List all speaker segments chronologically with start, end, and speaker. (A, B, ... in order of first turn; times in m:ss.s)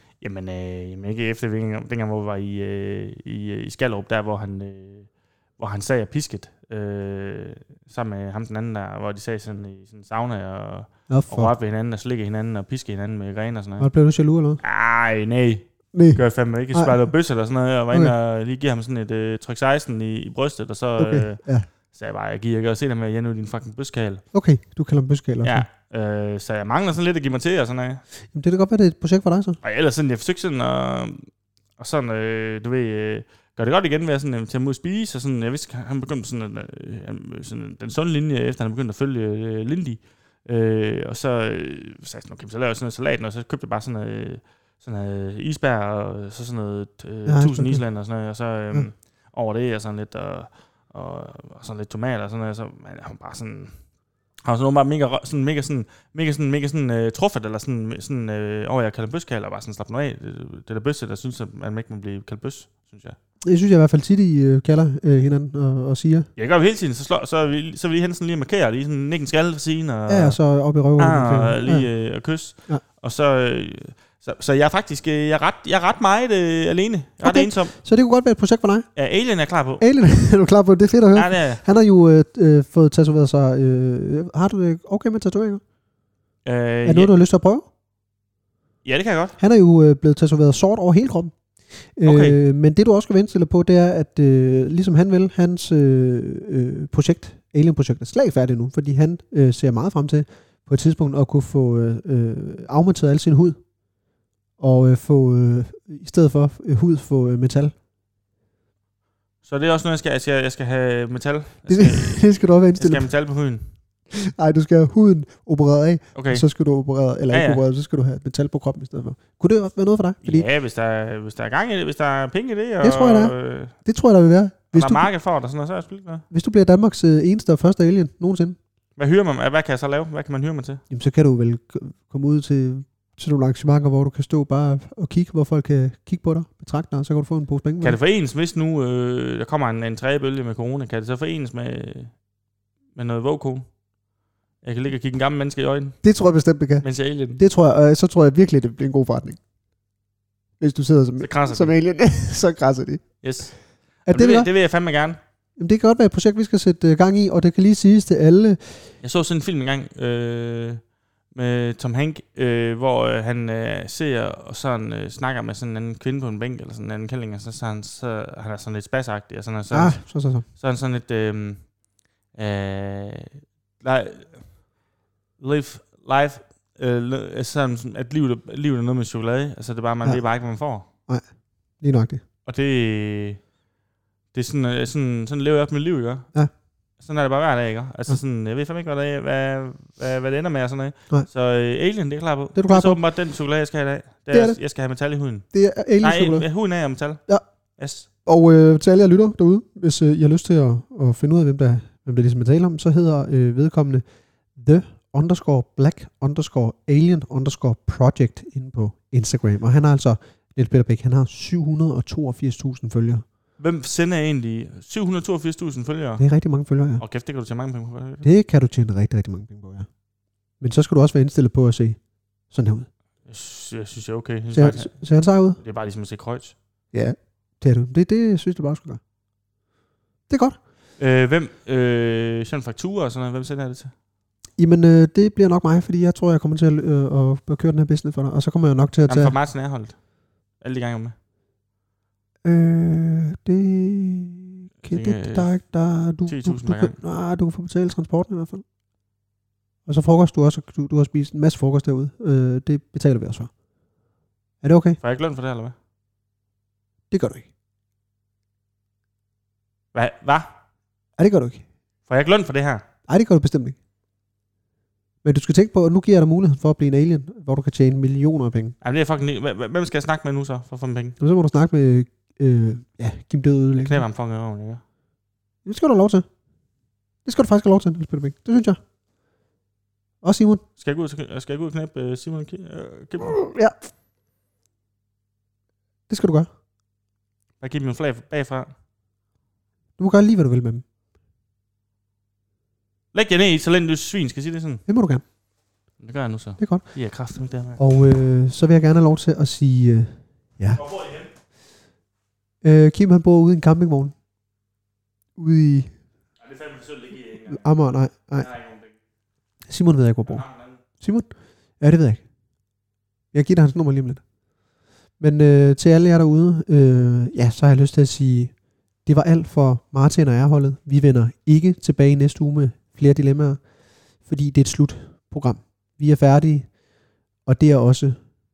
0:00.2-0:13.9 A
0:11.1-0:11.5 B
0:13.8-0:14.6 B
0:14.6-0:24.2 A
0:15.9-0:17.1 B
0:21.0-0:21.7 B
0:24.3-0:25.7 B
0:25.4-0:28.0 A
0:28.3-0:29.6 B
0:29.6-0:53.9 A
0:47.2-0:47.8 B
0:54.4-1:03.2 A
1:03.4-1:06.3 B
1:06.4-1:10.4 A
1:10.1-1:11.9 B
1:11.0-1:17.7 A
1:17.2-1:18.9 B
1:19.0-1:19.8 A
1:19.8-1:25.6 B
1:21.1-1:21.6 A
1:26.4-1:27.1 A
1:26.8-1:27.6 B
1:28.8-1:29.3 A
1:29.4-1:31.4 B
1:32.0-1:43.6 B
1:32.0-1:32.4 A
1:44.6-1:47.7 B
1:49.4-1:53.7 A
1:51.7-1:53.1 B
1:54.1-2:00.4 B
1:56.1-1:56.4 A
1:57.3-1:57.6 A
2:00.2-2:03.7 A
2:02.8-2:05.0 B
2:04.7-2:06.2 A
2:06.3-2:08.6 B
2:09.0-2:10.8 A
2:10.9-2:18.0 B
2:17.8-2:22.2 A
2:22.9-2:23.8 A
2:24.6-2:26.0 A
2:26.0-2:29.4 B
2:26.8-2:27.4 A
2:30.6-2:33.4 B
2:31.2-2:31.7 A
2:33.2-2:35.2 A
2:34.1-2:34.5 B
2:35.6-2:38.9 B
2:39.0-2:51.8 A
2:49.7-2:50.4 B
2:52.3-2:54.7 A
2:55.4-3:00.8 A
3:01.1-3:02.2 B
3:02.4-3:03.5 A
3:04.3-3:06.3 A
3:07.0-3:15.5 A
3:12.5-3:13.0 B
3:14.3-3:14.6 B
3:15.5-3:16.5 B
3:16.0-3:17.2 A
3:17.8-3:18.1 A
3:18.2-3:24.0 B
3:24.6-3:33.2 B
3:33.6-3:36.2 A
3:36.2-3:37.0 B
3:37.0-3:38.3 A
3:38.2-3:39.9 B
3:40.6-3:42.9 B
3:43.2-3:46.6 A
3:44.5-3:45.6 B
3:46.9-3:49.0 B
3:50.3-3:50.6 B
3:51.0-3:53.9 A
3:54.6-3:59.3 B
3:59.1-4:01.1 A
4:02.4-4:08.6 B
4:04.8-4:05.6 A
4:06.2-4:07.0 A
4:09.8-4:13.5 B
4:14.6-4:15.0 B
4:15.0-4:15.7 A
4:17.1-4:17.4 B
4:19.9-4:20.5 A
4:21.2-4:21.6 B
4:22.1-4:22.8 A
4:23.1-4:23.8 B
4:25.2-4:28.8 B
4:28.8-4:31.2 A
4:31.2-4:34.0 B
4:33.8-4:34.8 A
4:35.6-4:36.3 B
4:37.2-4:38.8 B
4:40.2-4:40.6 B
4:40.8-4:43.4 A
4:43.4-4:43.7 B
4:46.1-4:46.5 B
4:47.6-4:48.7 A
4:50.0-4:50.8 B
4:53.1-4:54.8 A
4:54.9-4:55.2 B
4:56.0-4:57.8 A
4:56.6-4:57.0 B
4:57.8-5:00.8 B
5:00.7-5:01.3 A
5:02.6-5:04.1 B
5:05.4-5:05.9 B
5:06.4-5:08.9 A
5:07.5-5:08.5 B
5:09.7-5:12.2 B
5:10.2-5:10.8 A
5:13.3-5:14.2 B
5:15.2-5:26.8 B
5:27.4-5:28.2 B